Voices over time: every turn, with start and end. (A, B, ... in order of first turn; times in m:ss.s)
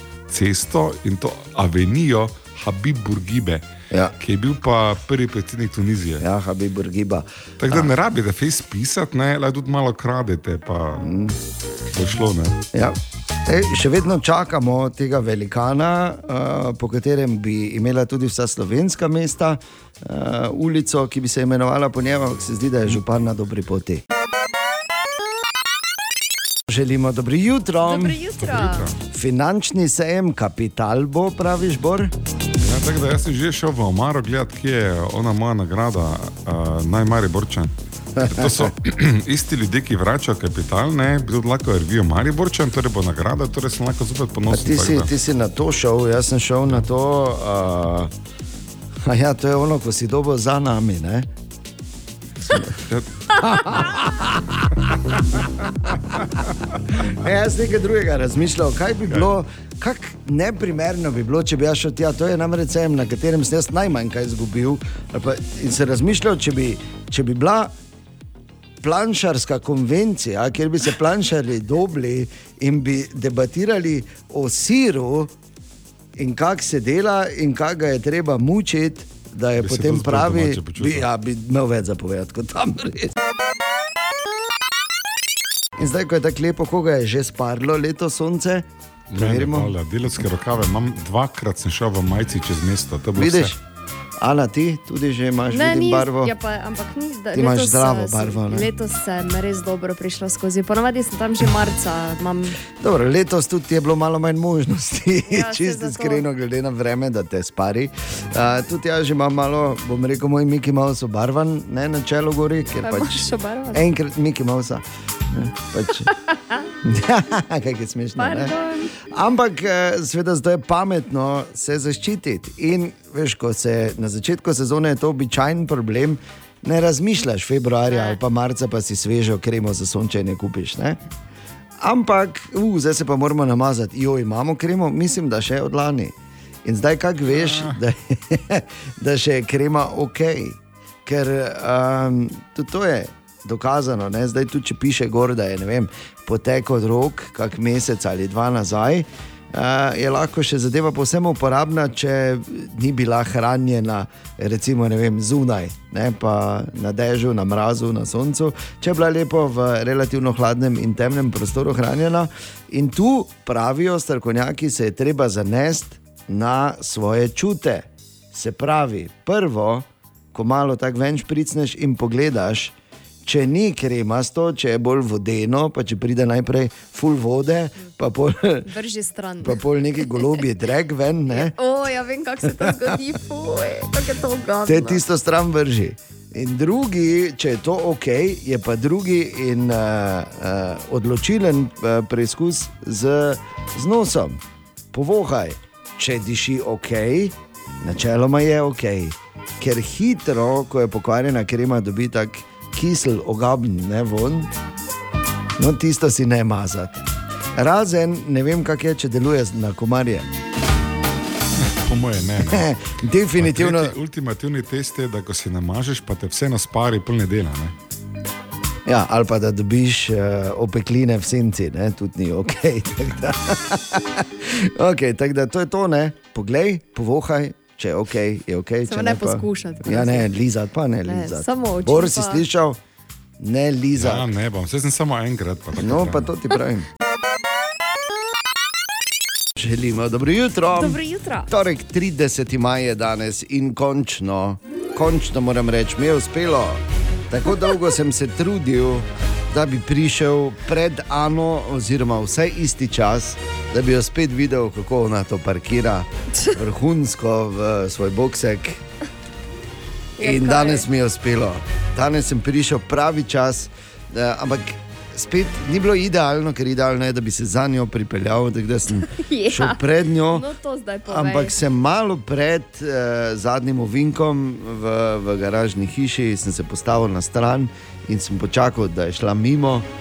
0:00.3-0:03.6 A
0:04.2-0:06.2 A
0:06.2-0:07.9 B
0:07.6-0:11.1 A
0:11.0-0:11.4 B
0:12.0-0:12.6 A
0:12.7-0:24.0 B
0:26.7-0:28.2 B
0:27.8-0:28.8 C
0:28.5-0:29.0 A
0:29.1-0:32.1 B
0:32.6-0:37.7 A
0:38.2-0:38.7 B
0:38.3-0:45.1 A
0:44.5-0:48.1 B
0:49.1-0:51.3 B
0:53.4-0:55.9 B
0:57.0-1:07.7 B
1:08.8-1:15.3 B
1:16.2-1:23.1 B
1:19.6-1:21.1 A
1:25.8-1:29.7 B
1:29.1-1:33.6 A
1:33.2-1:33.6 B
1:34.2-1:36.3 B
1:35.5-1:42.6 C
1:37.3-1:38.7 B
1:42.8-1:56.1 B
1:45.3-1:46.3 C
1:52.8-1:53.8 C
1:56.3-1:56.6 C
1:56.8-1:58.5 B
1:58.2-1:58.9 C
1:59.1-2:11.0 B
2:07.9-2:08.2 C
2:11.8-2:16.1 B
2:16.6-2:52.7 B
2:53.3-2:58.7 B
2:58.7-3:00.4 C
2:59.4-3:01.5 B
3:01.3-3:05.0 C
3:02.5-3:03.0 B
3:04.7-3:14.4 B
3:14.9-3:24.5 B
3:25.6-3:27.0 B
3:27.6-3:30.3 B
3:31.8-3:32.7 A
3:32.4-3:33.9 B
3:33.4-3:37.7 A
3:38.9-3:52.8 B
3:48.9-3:50.3 C
3:51.1-3:52.4 C
3:53.4-3:54.3 B
3:54.0-3:56.2 A
3:55.8-3:56.9 B
3:59.6-4:18.8 B
4:00.8-4:01.5 C
4:20.2-4:20.8 C
4:20.2-4:30.5 B
4:29.0-4:29.8 C
4:30.3-4:31.6 C
4:31.1-4:39.9 B